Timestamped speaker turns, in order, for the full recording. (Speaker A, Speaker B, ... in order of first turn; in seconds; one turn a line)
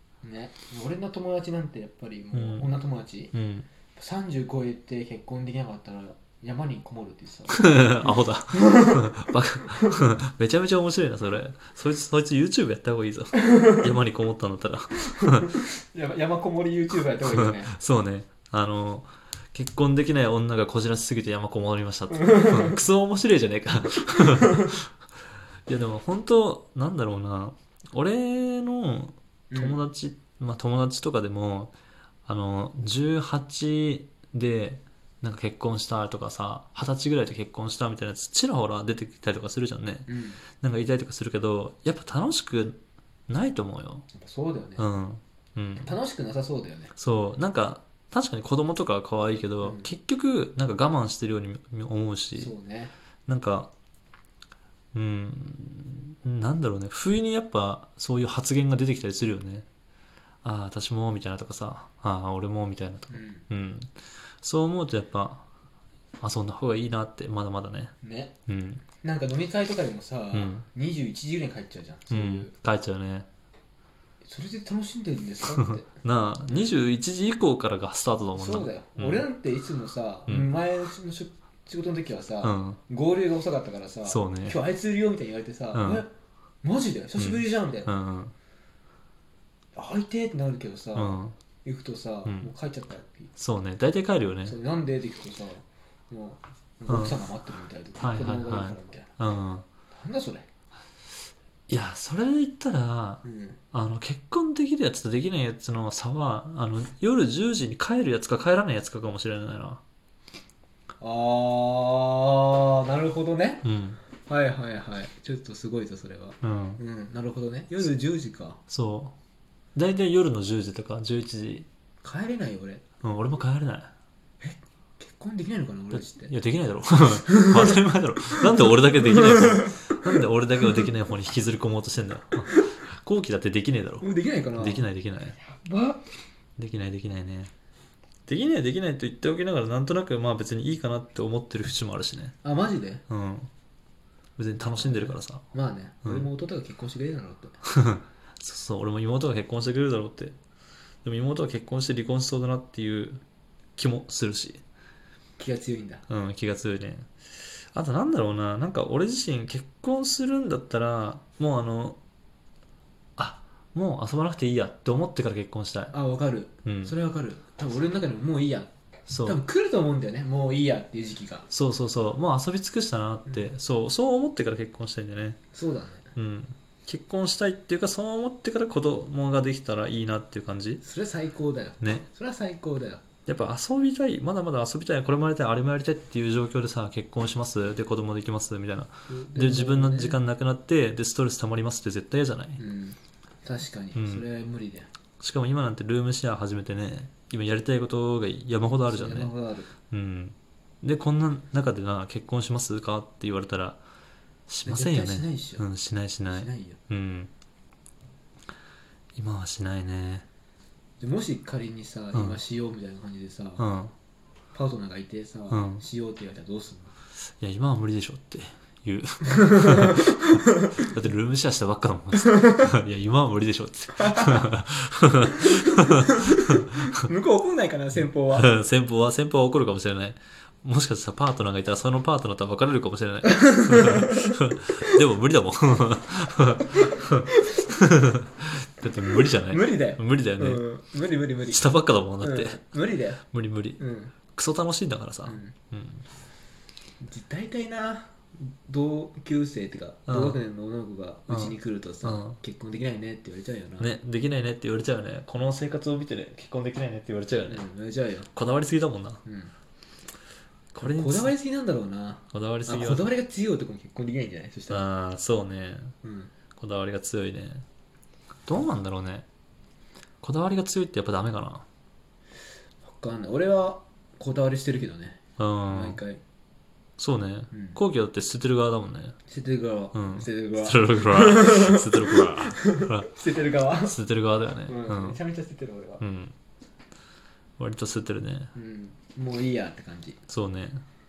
Speaker A: 0.2-3.3
Speaker B: 2.3-2.7
Speaker B: 3.3-3.7
Speaker A: 4.0-9.1
Speaker B: 7.5-15.6
Speaker A: 9.7-10.0
Speaker A: 15.1-17.7
Speaker B: 17.3-24.9
Speaker A: 22.2-22.8
Speaker B: 25.7-31.7
Speaker A: 29.5-29.8
Speaker B: 32.3-44.1
Speaker A: 40.1-40.4
Speaker A: 44.1-44.9
Speaker B: 44.8-45.9
Speaker A: 45.8-46.9
Speaker B: 47.0-52.5
Speaker A: 49.6-49.9
Speaker A: 52.4-52.9
Speaker B: 53.3-53.7
Speaker B: 54.9-59.7
Speaker B: 60.4-63.9
Speaker A: 63.1-63.5
Speaker B: 64.4-65.5
Speaker B: 66.2-67.9
Speaker A: 68.0-68.3
Speaker B: 68.5-68.8
Speaker A: 69.0-72.5
Speaker B: 70.3-70.7
Speaker B: 72.1-73.3
Speaker A: 74.2-75.9
Speaker B: 75.6-79.3
Speaker A: 78.3-86.1
Speaker B: 82.4-82.8
Speaker B: 84.1-84.6
Speaker B: 85.7-86.0
Speaker A: 86.6-87.9
Speaker B: 87.2-88.3
Speaker A: 89.8-93.3
Speaker B: 91.0-91.4
Speaker B: 93.4-94.6
Speaker A: 94.5-99.1
Speaker B: 96.9-97.2
Speaker B: 98.0-99.7
Speaker A: 99.9-100.5
Speaker B: 101.7-109.8
Speaker A: 103.2-103.6
Speaker A: 111.0-113.7
Speaker B: 113.6-114.0
Speaker A: 114.3-118.6
Speaker B: 116.4-116.8
Speaker B: 118.7-119.2
Speaker B: 119.8-121.7
Speaker A: 122.0-122.8
Speaker B: 123.0-123.9
Speaker A: 124.4-126.3
Speaker B: 125.9-135.4
Speaker A: 127.3-130.2
Speaker A: 134.0-134.9
Speaker A: 135.4-136.0
Speaker B: 136.6-137.5
Speaker B: 138.3-142.3
Speaker A: 142.4-143.0
Speaker B: 143.1-143.5
Speaker B: 144.4-145.4
Speaker A: 144.7-147.6
Speaker B: 147.7-150.4
Speaker B: 151.0-153.2
Speaker B: 153.8-154.6
Speaker A: 155.4-156.1
Speaker B: 156.1-157.1
Speaker B: 157.7-162.0
Speaker B: 163.2-165.9
Speaker A: 165.9-168.7
Speaker B: 166.7-166.9
Speaker B: 169.1-169.4
Speaker A: 169.2-171.5
Speaker B: 171.5-175.4
Speaker A: 175.5-176.1
Speaker B: 176.2-180.8
Speaker A: 180.8-183.0
Speaker B: 183.3-192.6
Speaker A: 189.1-190.2
Speaker A: 192.6-194.9
Speaker B: 193.9-194.2
Speaker B: 195.2-199.3
Speaker A: 198.8-199.7
Speaker B: 199.9-203.8
Speaker B: 204.5-207.3
Speaker A: 204.7-205.7
Speaker A: 206.3-206.8
Speaker B: 209.2-210.2
Speaker A: 211.0-213.7
Speaker B: 212.1-212.4
Speaker B: 213.6-213.9
Speaker A: 214.5-216.9
Speaker B: 215.5-215.8
Speaker B: 217.4-227.1
Speaker A: 219.4-220.4
Speaker A: 222.3-222.6
Speaker A: 224.0-224.5
Speaker A: 225.4-228.5
Speaker B: 228.3-240.7
Speaker A: 233.7-234.3
Speaker A: 236.7-237.6
Speaker A: 239.1-241.7
Speaker B: 241.5-242.6
Speaker A: 242.2-243.2
Speaker B: 243.3-243.8
Speaker A: 243.8-244.1
Speaker B: 244.3-246.1
Speaker A: 245.3-245.6
Speaker A: 247.0-253.9
Speaker B: 250.1-250.4
Speaker B: 251.3-252.4
Speaker B: 253.8-257.6
Speaker A: 257.5-258.3
Speaker B: 258.3-259.2
Speaker A: 259.2-259.5
Speaker B: 260.7-261.3
Speaker A: 260.8-264.8
Speaker B: 262.3-263.1
Speaker B: 264.7-265.9
Speaker A: 266.0-266.3
Speaker B: 266.6-267.6
Speaker B: 268.5-269.3
Speaker B: 270.2-271.6
Speaker A: 272.8-276.2
Speaker B: 275.4-276.0
Speaker B: 277.0-279.2
Speaker A: 277.5-277.8
Speaker A: 279.3-284.0
Speaker B: 279.9-283.1
Speaker B: 283.8-285.2
Speaker A: 284.7-286.0
Speaker B: 286.0-286.3
Speaker B: 287.6-288.5
Speaker A: 288.6-290.2
Speaker B: 290.3-290.8